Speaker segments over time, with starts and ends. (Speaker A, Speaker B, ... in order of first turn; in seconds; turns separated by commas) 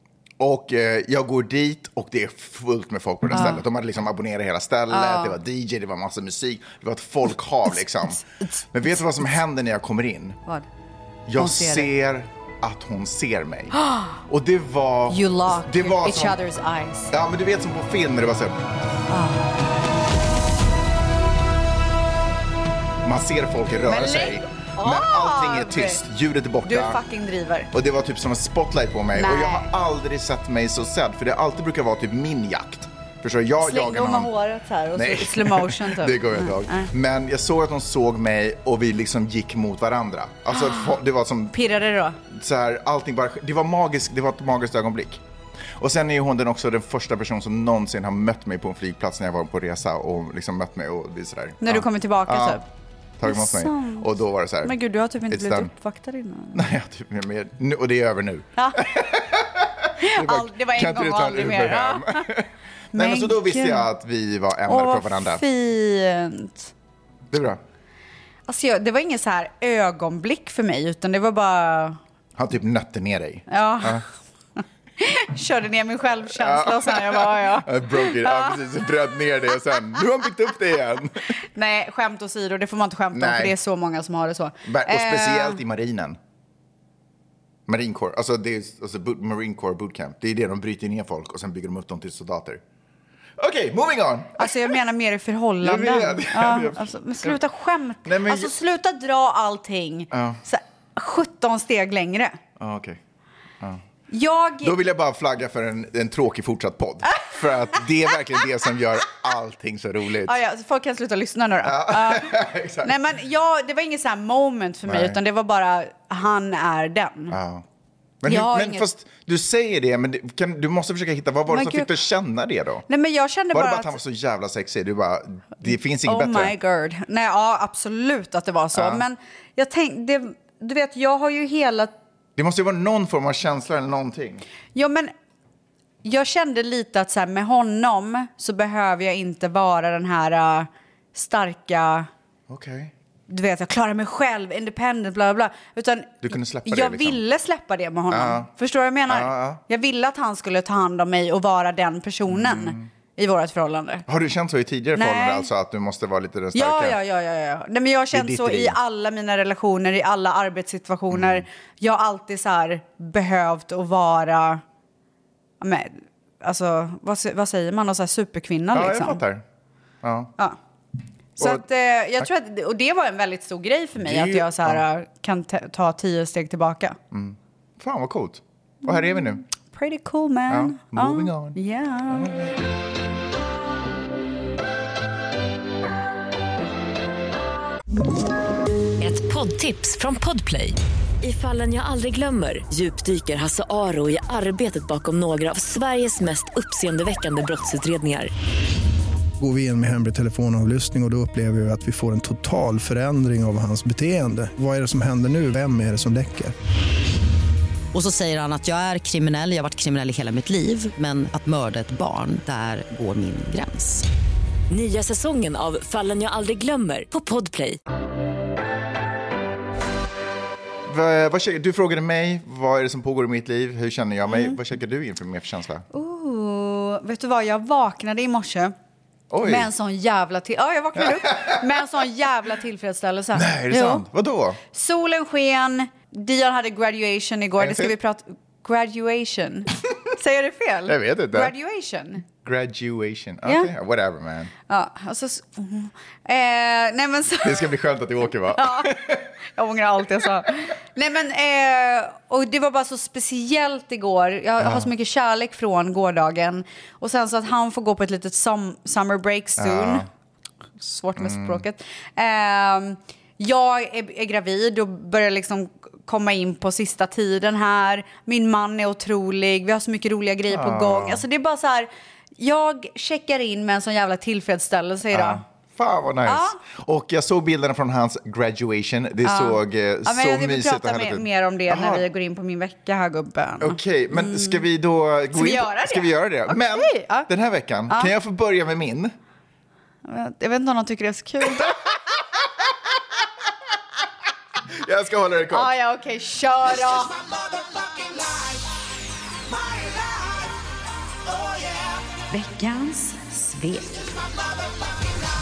Speaker A: 0.4-8.2, Speaker B: 3.3-3.6, Speaker B: 4.9-5.3, Speaker B: 7.7-9.0, Speaker A: 8.7-10.4, Speaker A: 11.3-16.4, Speaker B: 11.4-11.9, Speaker B: 13.8-14.1, Speaker B: 15.1-17.1, Speaker A: 17.1-18.6, Speaker B: 19.1-19.6, Speaker A: 23.0-27.0, Speaker B: 23.9-26.0, Speaker B: 26.6-27.7, Speaker A: 27.7-34.3, Speaker B: 29.1-29.7, Speaker B: 33.6-36.9, Speaker A: 34.9-41.5, Speaker B: 40.5-41.0, Speaker B: 41.5-42.2, Speaker A: 42.3-45.2, Speaker A: 45.8-52.6, Speaker B: 51.6-52.6, Speaker A: 53.2-54.7, Speaker B: 53.2-54.1, Speaker B: 54.6-56.6, Speaker A: 55.3-55.7, Speaker A: 56.5-65.4, Speaker B: 58.6-58.8, Speaker B: 60.0-62.2, Speaker B: 62.9-63.9, Speaker B: 64.7-66.7, Speaker A: 67.3-67.6, Speaker B: 68.5-72.0, Speaker A: 72.4-74.0, Speaker B: 73.5-74.0, Speaker B: 75.0-78.9, Speaker A: 76.3-81.3, Speaker B: 81.5-85.6, Speaker A: 83.1-83.5, Speaker A: 84.6-86.2, Speaker A: 87.7-92.6, Speaker A: 93.4-94.7, Speaker B: 94.4-102.4, Speaker A: 95.6-97.4, Speaker A: 98.0-98.5, Speaker A: 100.1-100.4, Speaker A: 102.6-103.0, Speaker B: 104.1-104.8, Speaker A: 104.6-110.4, Speaker B: 110.2-117.3, Speaker A: 111.6-112.9, Speaker A: 114.8-115.2, Speaker A: 117.3-117.6, Speaker A: 118.2-122.9, Speaker B: 118.2-118.9, Speaker B: 121.5-121.9, Speaker B: 122.9-124.0, Speaker A: 123.5-126.5, Speaker B: 126.0-131.9, Speaker A: 128.7-129.0, Speaker A: 132.4-134.4, Speaker B: 134.7-135.1, Speaker B: 136.0-142.1, Speaker A: 142.5-142.9, Speaker B: 143.3-154.1, Speaker A: 146.2-147.2, Speaker A: 148.1-148.5, Speaker A: 149.1-149.6, Speaker A: 152.3-152.9, Speaker A: 154.1-157.0, Speaker B: 154.9-155.5, Speaker B: 156.5-164.6, Speaker A: 158.1-158.8, Speaker A: 161.1-161.4, Speaker B: 165.6-169.2, Speaker A: 168.7-169.4, Speaker A: 170.0-170.3, Speaker A: 171.4-171.6, Speaker B: 171.4-177.0, Speaker A: 174.0-174.8, Speaker A: 177.1-179.4, Speaker B: 178.8-182.3, Speaker A: 180.5-181.6, Speaker A: 182.1-182.5, Speaker C: 189.0-198.3, Speaker D: 199.4-206.5, Speaker E: 207.9-214.1, Speaker C: 214.7-217.8, Speaker A: 220.8-225.8, Speaker B: 224.3-224.6, Speaker B: 225.9-228.7, Speaker A: 229.3-229.7, Speaker B: 229.4-234.0, Speaker A: 231.0-231.6, Speaker A: 233.3-234.6, Speaker B: 234.7-242.2, Speaker A: 237.6-237.9, Speaker A: 240.9-241.5, Speaker A: 242.4-244.5, Speaker B: 244.7-247.7, Speaker A: 247.4-249.3, Speaker B: 248.5-260.0, Speaker A: 254.6-254.9, Speaker A: 259.6-260.1, Speaker B: 260.8-275.4, Speaker A: 261.2-261.6, Speaker A: 270.5-271.2, Speaker A: 275.1-282.0, Speaker B: 276.2-276.6, Speaker B: 279.2-284.6, Speaker A: 283.6-289.1, Speaker B: 285.3-287.3, Speaker B: 290.1-291.8, Speaker A: 294.8-295.7, Speaker B: 295.5-297.2, Speaker B: 302.3-304.2